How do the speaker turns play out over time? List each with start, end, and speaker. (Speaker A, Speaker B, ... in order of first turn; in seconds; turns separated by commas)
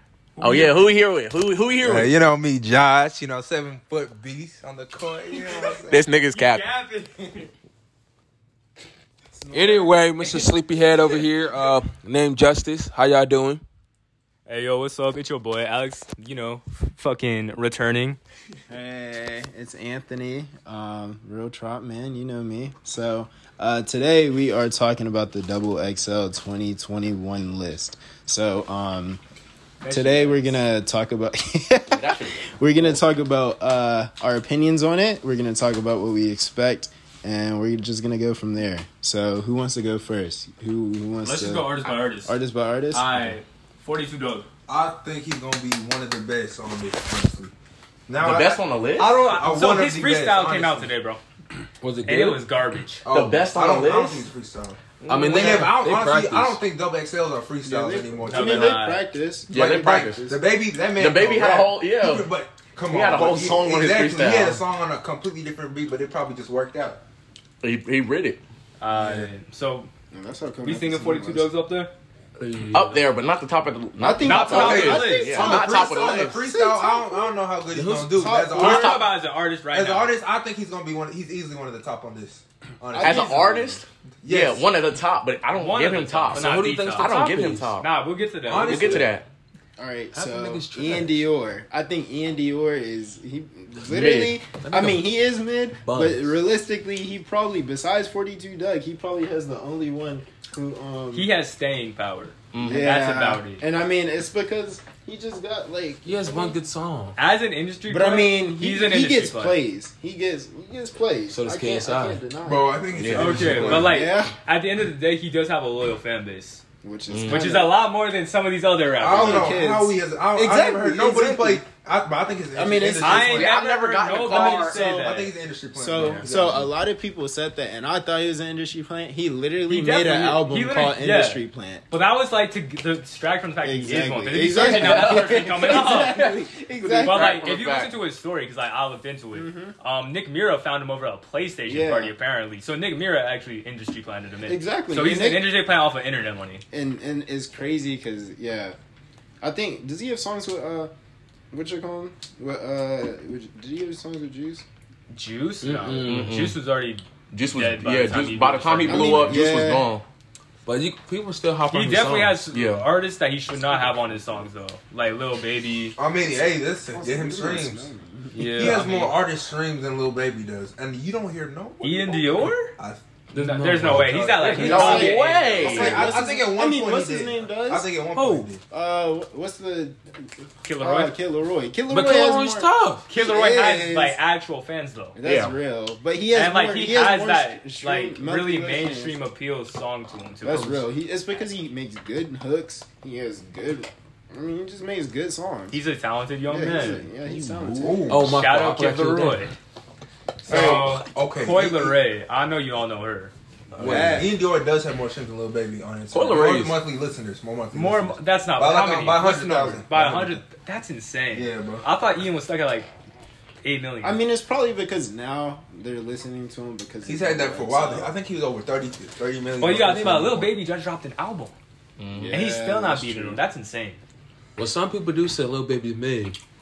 Speaker A: 0.3-0.8, Speaker B: 0.4-2.1, Speaker C: 1.8-6.0, Speaker B: 5.9-6.6, Speaker A: 6.3-7.5, Speaker D: 9.3-10.3, Speaker E: 9.5-13.6, Speaker A: 14.5-18.2, Speaker D: 18.7-29.2, Speaker A: 29.8-30.6, Speaker D: 29.9-43.3, Speaker B: 31.9-32.9, Speaker A: 41.2-42.3, Speaker A: 42.9-44.5, Speaker C: 44.7-47.5, Speaker C: 48.1-50.9, Speaker B: 48.2-49.2, Speaker A: 49.0-51.2, Speaker E: 51.8-52.4, Speaker A: 52.0-53.0, Speaker C: 53.0-58.8, Speaker B: 53.1-54.3, Speaker B: 55.0-55.6, Speaker E: 55.1-56.6, Speaker D: 57.6-60.4, Speaker A: 58.3-59.1, Speaker B: 59.5-60.2, Speaker C: 59.5-67.0, Speaker B: 60.9-62.3, Speaker B: 62.9-64.6, Speaker B: 67.6-68.4, Speaker A: 68.8-69.9, Speaker C: 68.9-69.3, Speaker D: 70.1-71.5, Speaker A: 70.6-71.9, Speaker E: 72.4-73.0, Speaker B: 72.7-76.4, Speaker D: 74.0-77.4, Speaker A: 74.2-75.5, Speaker C: 74.5-79.2, Speaker E: 77.7-78.2, Speaker D: 78.1-79.0, Speaker A: 78.5-80.1, Speaker B: 78.6-79.0, Speaker C: 79.7-84.7, Speaker D: 82.9-83.7, Speaker B: 82.9-87.8, Speaker A: 85.5-89.1, Speaker E: 86.3-87.8, Speaker C: 88.4-89.2, Speaker B: 88.6-89.2, Speaker D: 89.8-101.3, Speaker E: 90.1-91.2, Speaker B: 93.8-94.4, Speaker E: 94.6-95.1, Speaker E: 95.8-96.4, Speaker A: 101.1-103.6, Speaker B: 102.5-102.9, Speaker D: 102.6-106.6, Speaker E: 106.0-107.2, Speaker A: 107.2-109.6, Speaker D: 107.9-114.3, Speaker E: 111.3-112.2, Speaker C: 112.4-114.0, Speaker B: 112.9-113.8, Speaker A: 113.1-116.6, Speaker D: 116.8-117.8, Speaker B: 117.1-117.4, Speaker A: 117.3-119.6, Speaker C: 119.0-126.7, Speaker D: 119.1-121.6, Speaker D: 122.5-123.5, Speaker A: 123.0-125.3, Speaker B: 123.1-124.8, Speaker D: 124.3-125.0, Speaker D: 125.7-131.8, Speaker A: 129.7-136.3, Speaker D: 133.6-137.5, Speaker B: 134.6-137.9, Speaker A: 137.0-146.6, Speaker D: 139.3-139.8, Speaker D: 141.6-142.1, Speaker D: 144.4-145.6, Speaker D: 146.7-148.8, Speaker D: 149.4-150.9, Speaker D: 151.5-154.6, Speaker A: 155.1-159.4, Speaker E: 155.6-156.3, Speaker D: 155.6-156.0, Speaker B: 156.1-156.6, Speaker B: 157.3-160.0, Speaker D: 158.8-159.9, Speaker E: 160.7-162.4, Speaker A: 161.7-165.9, Speaker B: 162.5-162.9, Speaker C: 166.0-167.9, Speaker D: 166.9-168.8, Speaker A: 168.3-169.2, Speaker C: 168.5-173.0, Speaker A: 171.8-172.7, Speaker E: 173.3-174.3, Speaker A: 173.3-175.9, Speaker C: 173.8-178.6, Speaker B: 174.4-176.0, Speaker D: 174.5-177.9, Speaker E: 178.2-178.4, Speaker D: 178.6-184.2, Speaker A: 180.6-181.2, Speaker E: 181.9-183.0, Speaker A: 183.1-185.2, Speaker D: 185.2-189.2, Speaker B: 185.2-185.6, Speaker A: 186.3-190.9, Speaker D: 190.4-195.8, Speaker A: 195.7-197.1, Speaker D: 196.5-198.2, Speaker B: 197.5-197.9, Speaker C: 197.6-198.4, Speaker E: 198.1-199.5, Speaker A: 198.2-199.5, Speaker C: 200.4-202.0, Speaker A: 200.5-203.3, Speaker D: 200.5-200.9, Speaker B: 203.7-204.2, Speaker D: 203.8-204.4, Speaker C: 203.8-210.4, Speaker B: 206.1-206.8, Speaker A: 207.7-212.9, Speaker D: 209.2-209.8, Speaker C: 211.3-211.8, Speaker A: 213.6-214.2, Speaker D: 214.0-218.1, Speaker C: 217.1-220.5, Speaker A: 219.6-221.5, Speaker B: 222.0-222.3, Speaker D: 222.1-223.4, Speaker A: 222.3-224.0, Speaker E: 224.6-226.4